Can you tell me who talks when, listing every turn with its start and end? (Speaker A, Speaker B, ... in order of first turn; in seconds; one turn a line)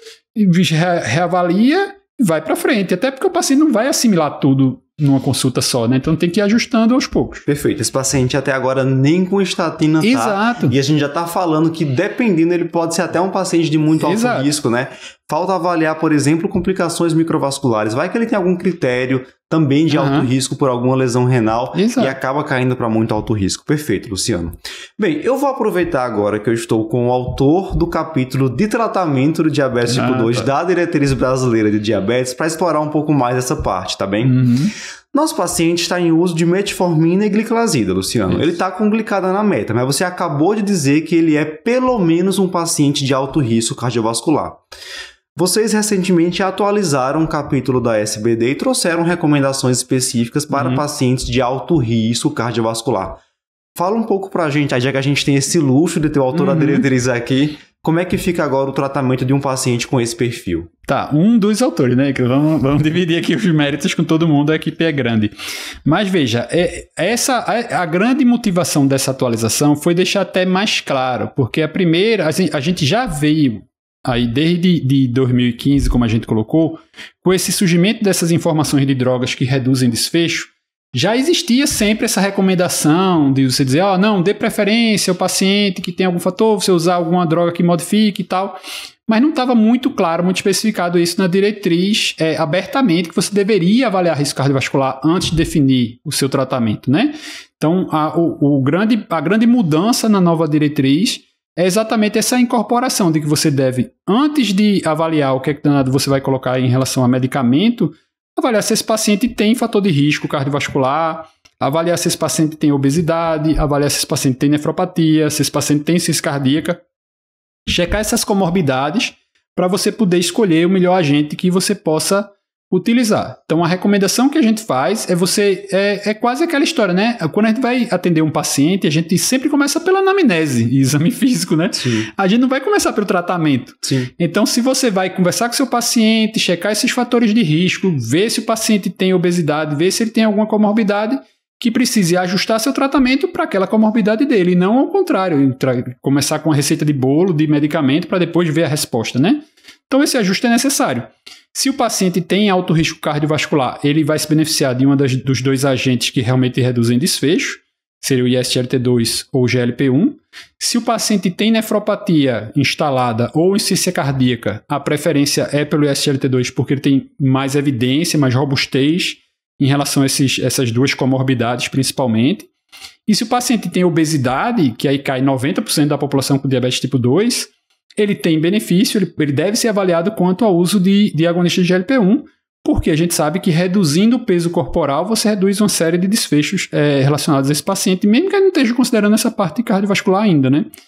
Speaker A: 0.3-7.5
Speaker B: 7.5-34.4
Speaker A: 10.0-10.8
Speaker A: 14.0-14.5
Speaker A: 19.9-20.3
Speaker A: 21.7-22.2
Speaker A: 29.9-30.5
Speaker A: 34.2-34.7
Speaker B: 35.1-44.6
Speaker B: 45.4-53.2
Speaker A: 50.5-50.8
Speaker B: 53.8-60.7
Speaker A: 56.3-56.9
Speaker A: 60.9-65.3
Speaker A: 65.8-116.8
Speaker A: 117.7-172.5
Speaker B: 131.8-132.1
Speaker B: 133.8-134.1
Speaker A: 173.1-190.7